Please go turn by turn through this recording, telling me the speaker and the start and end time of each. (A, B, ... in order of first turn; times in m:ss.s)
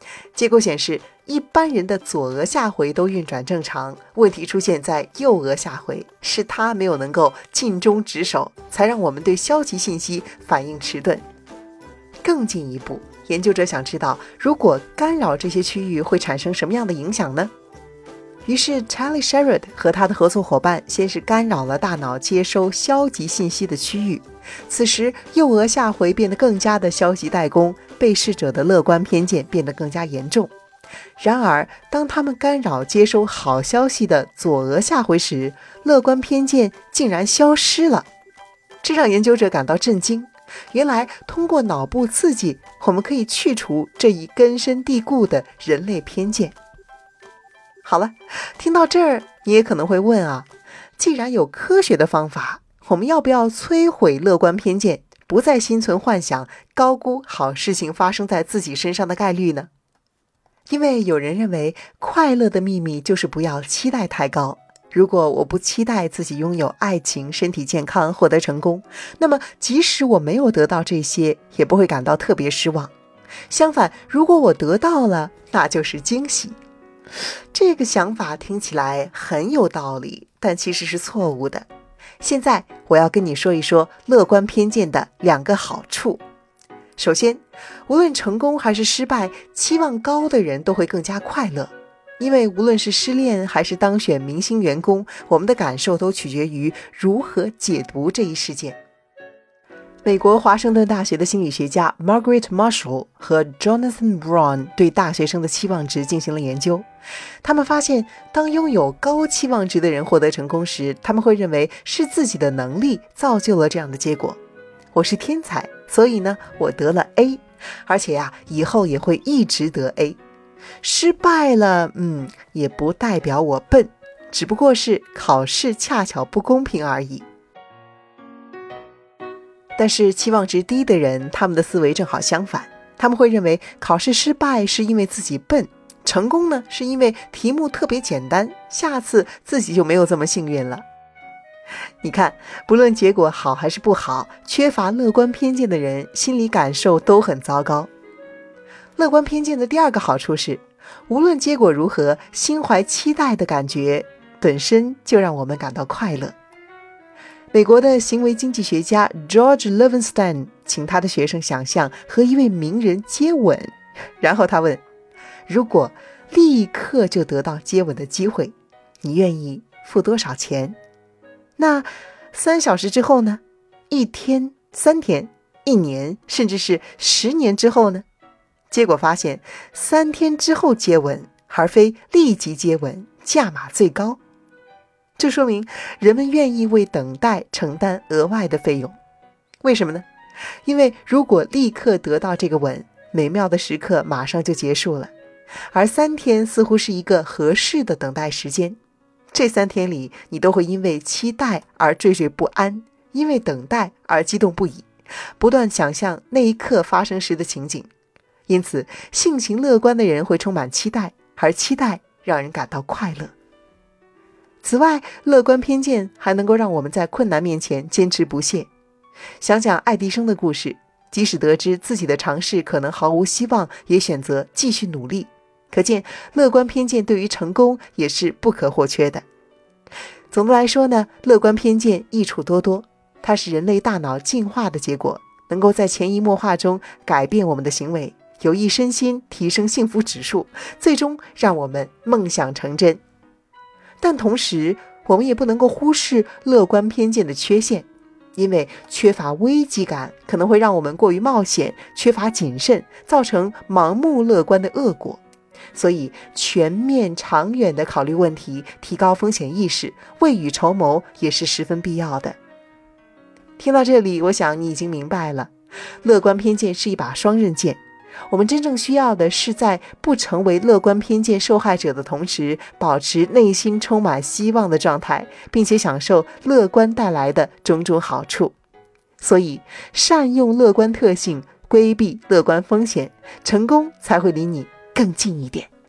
0:00.3-0:11.2 A
0:12.2-0:17.5 A
0:18.4-0:30.5 A
0:31.2-0:38.1 A
0:38.8-0:46.5 A
0:47.8-0:50.5 A
0:51.0-0:59.7 A
1:00.7-1:12.9 A
1:13.5-1:16.6 A
1:17.5-1:21.7 A
1:22.2-1:26.2 A
1:27.0-1:38.8 A
1:40.0-1:46.8 A
1:47.4-1:54.4 A
1:54.9-2:00.2 A
2:00.8-2:07.2 A
2:09.8-2:20.8 A
2:22.0-2:27.9 A
2:29.0-2:36.4 A
2:37.5-2:44.8 A
2:45.5-2:50.8 A
2:51.6-2:58.0 A
2:58.7-3:04.2 A
3:05.2-3:09.0 A
3:09.6-3:10.0 A
3:10.6-3:15.1 A
3:15.7-3:18.8 A
3:19.3-3:24.9 A
3:25.4-3:27.9 A
3:28.5-3:33.3 A
3:34.6-3:38.7 A
3:39.4-3:49.2 A
3:50.3-4:03.0 A
4:04.0-4:15.2 A
4:15.7-4:22.4 A
4:23.6-4:25.5 A
4:26.0-4:38.6 A
4:39.2-4:45.7 A